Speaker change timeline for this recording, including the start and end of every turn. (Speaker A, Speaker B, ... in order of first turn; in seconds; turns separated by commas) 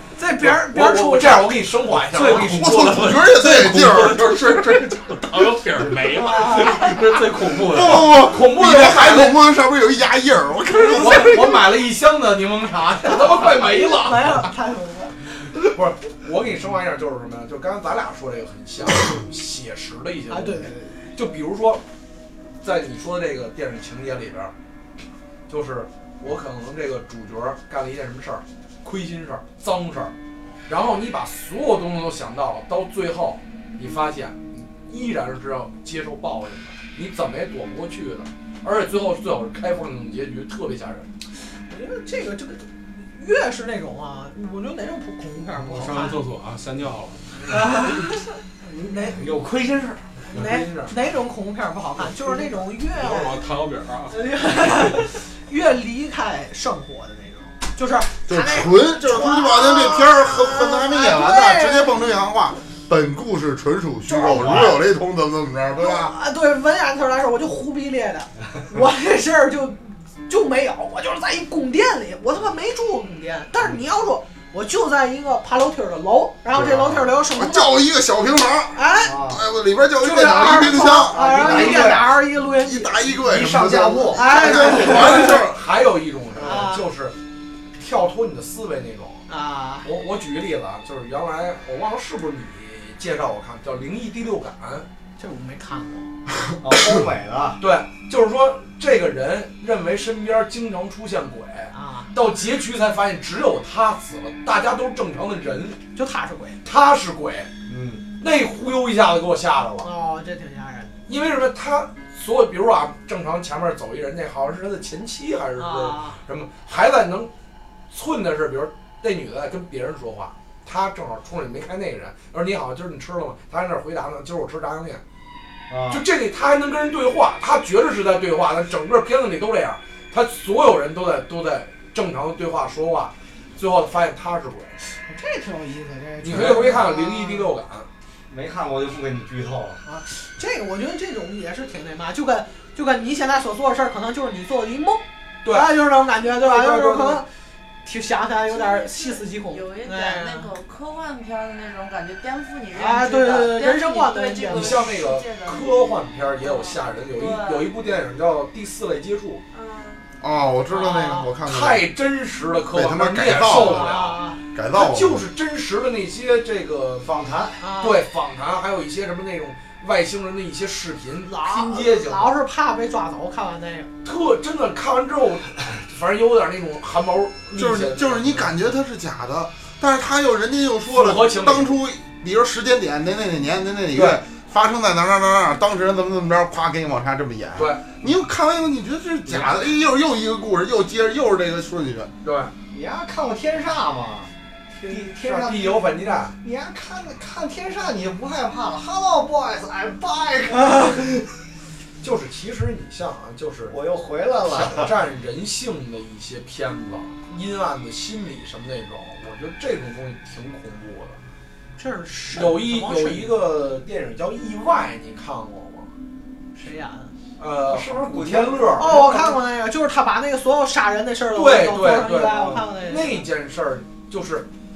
Speaker A: 0.2-1.6, Speaker B: 0.4-3.1, Speaker C: 2.1-8.2, Speaker D: 2.4-4.6, Speaker A: 6.2-6.9, Speaker D: 7.7-11.6, Speaker B: 7.9-9.4, Speaker B: 10.8-14.5, Speaker A: 13.0-15.2, Speaker B: 15.5-21.8, Speaker A: 20.3-21.1, Speaker B: 22.6-24.5, Speaker B: 25.5-30.1, Speaker B: 30.7-41.1, Speaker A: 41.7-46.2, Speaker C: 45.5-47.3, Speaker A: 47.5-48.3, Speaker E: 48.7-50.2, Speaker A: 48.8-49.2, Speaker B: 50.3-50.9, Speaker A: 50.3-53.4, Speaker C: 53.0-54.7, Speaker A: 54.1-62.0, Speaker D: 58.3-66.1, Speaker A: 64.1-64.5, Speaker E: 64.1-64.8, Speaker A: 65.8-77.8, Speaker D: 76.5-81.9, Speaker A: 78.7-79.2, Speaker E: 79.0-79.4, Speaker A: 80.0-83.0, Speaker E: 80.5-82.2, Speaker B: 81.2-81.7, Speaker D: 82.6-85.6, Speaker E: 83.1-84.8, Speaker A: 84.1-85.4, Speaker B: 84.6-87.2, Speaker A: 86.4-86.9, Speaker B: 87.7-89.3, Speaker A: 89.3-89.9, Speaker B: 89.8-94.9, Speaker A: 95.2-96.1, Speaker E: 96.6-97.6, Speaker B: 97.6-105.8, Speaker A: 101.7-102.1, Speaker A: 106.0-106.6, Speaker B: 106.6-107.5, Speaker E: 107.7-108.1, Speaker B: 108.1-109.9, Speaker A: 109.8-111.0, Speaker B: 111.1-117.3, Speaker A: 115.6-116.2, Speaker B: 117.9-125.0, Speaker E: 125.7-126.0, Speaker B: 125.9-134.8, Speaker A: 134.8-137.5, Speaker B: 136.2-137.9, Speaker E: 138.3-139.8, Speaker A: 139.8-147.2, Speaker B: 145.4-145.8, Speaker B: 146.4-147.2, Speaker A: 147.8-150.5, Speaker F: 148.5-155.7, Speaker A: 152.7-154.8, Speaker B: 154.5-159.4, Speaker F: 156.4-157.7, Speaker F: 159.5-160.1, Speaker D: 160.2-161.8, Speaker A: 160.7-161.3, Speaker B: 161.4-167.1, Speaker D: 162.7-163.9, Speaker A: 163.5-164.4, Speaker D: 164.6-165.2, Speaker E: 167.0-167.6, Speaker A: 167.6-168.0, Speaker B: 167.8-172.3, Speaker A: 171.2-173.9, Speaker B: 174.0-178.6, Speaker D: 177.5-192.1, Speaker B: 180.9-181.8, Speaker B: 183.9-184.2, Speaker B: 187.6-187.9, Speaker B: 189.3-189.6, Speaker B: 192.2-192.5, Speaker E: 192.7-201.3, Speaker B: 195.1-196.4, Speaker B: 202.0-203.8, Speaker E: 203.7-204.9, Speaker B: 204.4-211.2, Speaker A: 211.8-213.3, Speaker B: 212.3-215.9, Speaker A: 216.6-217.1, Speaker B: 217.4-219.4, Speaker E: 217.7-219.1, Speaker A: 218.8-223.3, Speaker B: 221.3-224.5